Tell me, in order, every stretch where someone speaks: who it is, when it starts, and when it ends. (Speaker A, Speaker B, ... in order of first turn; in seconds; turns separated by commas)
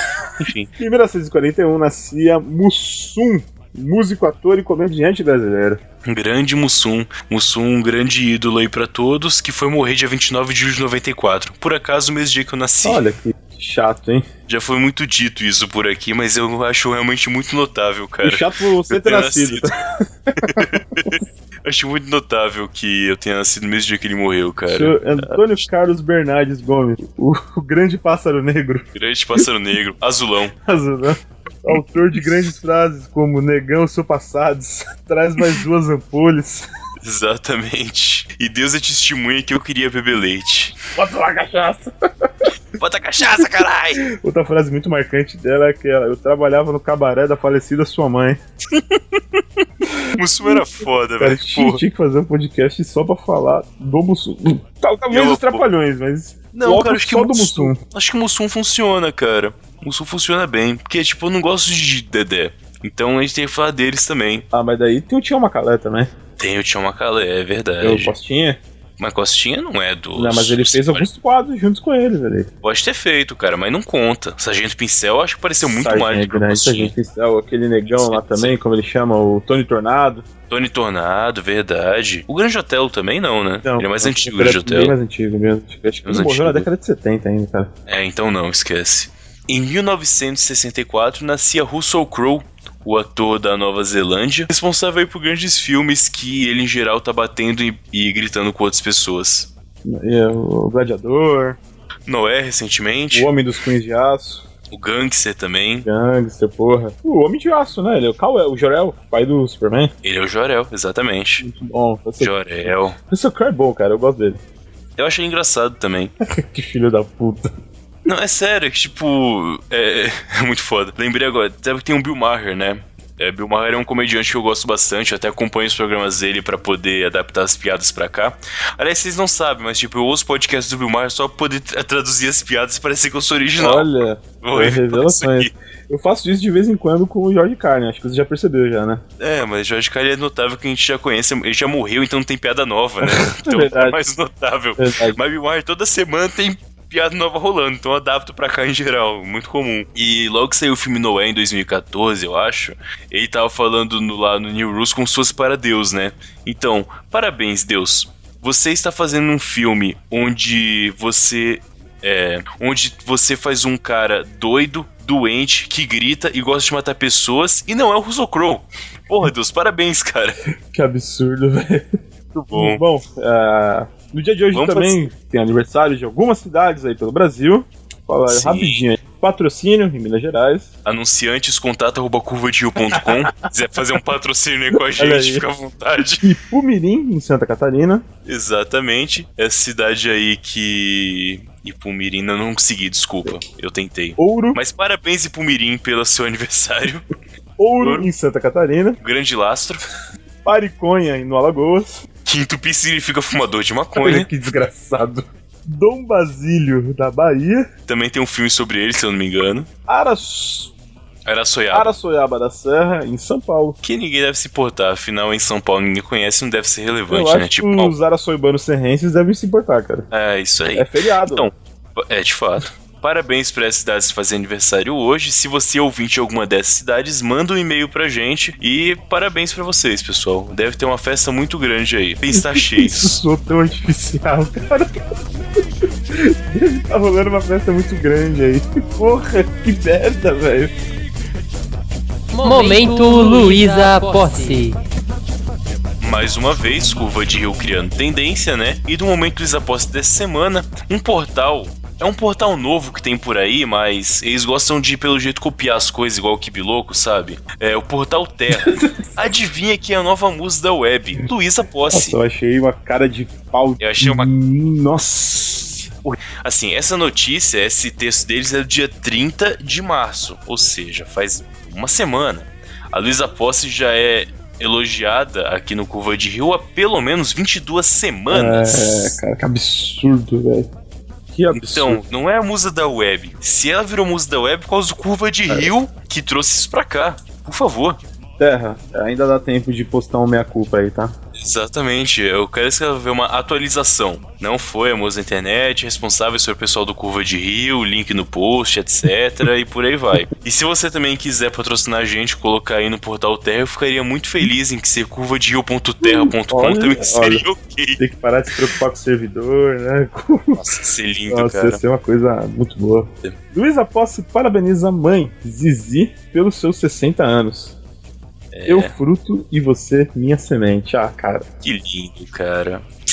Speaker A: 0.4-0.7, Speaker B: 0.8-5.8, Speaker A: 6.0-13.0, Speaker B: 12.8-14.3, Speaker A: 14.5-19.7, Speaker B: 18.2-19.7, Speaker B: 20.3-21.2, Speaker A: 20.4-25.4, Speaker B: 24.7-28.9, Speaker A: 28.9-30.5, Speaker B: 30.6-36.7, Speaker A: 37.0-40.8, Speaker B: 40.9-42.5, Speaker A: 42.8-44.0, Speaker B: 44.0-48.4, Speaker A: 48.7-49.6, Speaker A: 50.1-51.8, Speaker B: 51.2-57.8, Speaker A: 55.1-55.6, Speaker A: 56.5-64.5, Speaker B: 64.5-66.1, Speaker A: 66.4-68.1, Speaker B: 67.8-68.6, Speaker A: 69.0-71.1, Speaker B: 70.1-72.5, Speaker A: 72.6-76.9, Speaker B: 75.6-80.2, Speaker A: 77.9-78.6, Speaker A: 80.5-84.9, Speaker B: 83.6-87.7, Speaker A: 86.0-86.7, Speaker A: 87.9-99.5, Speaker B: 99.8-101.6, Speaker A: 102.1-103.3, Speaker B: 103.1-104.5, Speaker A: 104.7-105.9, Speaker B: 105.8-109.9, Speaker A: 110.0-111.4, Speaker B: 111.4-114.4, Speaker A: 112.2-113.0, Speaker A: 115.0-116.1, Speaker B: 116.2-117.5, Speaker A: 118.0-133.9, Speaker B: 133.6-139.0, Speaker A: 134.4-135.5, Speaker A: 139.2-170.3, Speaker B: 143.0-144.0, Speaker B: 144.8-145.2, Speaker B: 170.7-171.9, Speaker A: 172.3-172.8, Speaker B: 172.5-180.7, Speaker A: 174.5-175.1, Speaker A: 178.3-178.8, Speaker A: 180.8-186.2, Speaker B: 184.9-185.4, Speaker B: 186.2-188.0, Speaker A: 188.2-197.0, Speaker B: 194.2-194.6, Speaker B: 197.6-199.0, Speaker A: 197.8-198.1, Speaker A: 199.0-199.8, Speaker B: 200.4-202.0, Speaker A: 202.2-204.3, Speaker B: 203.9-207.7, Speaker A: 207.9-209.7, Speaker B: 209.9-210.7, Speaker A: 211.2-211.9, Speaker B: 211.7-213.8, Speaker A: 213.8-217.9, Speaker B: 217.1-220.1, Speaker A: 220.1-233.2, Speaker B: 220.7-221.4, Speaker B: 232.3-235.0, Speaker B: 236.1-240.7, Speaker C: 242.3-244.8, Speaker A: 246.0-262.1, Speaker B: 258.5-259.0, Speaker B: 261.9-265.9, Speaker A: 263.8-264.3, Speaker A: 266.0-279.1, Speaker B: 278.3-280.7, Speaker B: 281.3-282.0, Speaker A: 281.5-288.0, Speaker B: 285.5-285.7, Speaker B: 288.4-291.1, Speaker A: 291.4-308.0, Speaker B: 306.0-307.4, Speaker B: 308.0-310.6, Speaker A: 310.6-311.8, Speaker B: 311.3-317.7, Speaker A: 318.5-318.9, Speaker B: 318.7-321.5, Speaker A: 321.6-322.9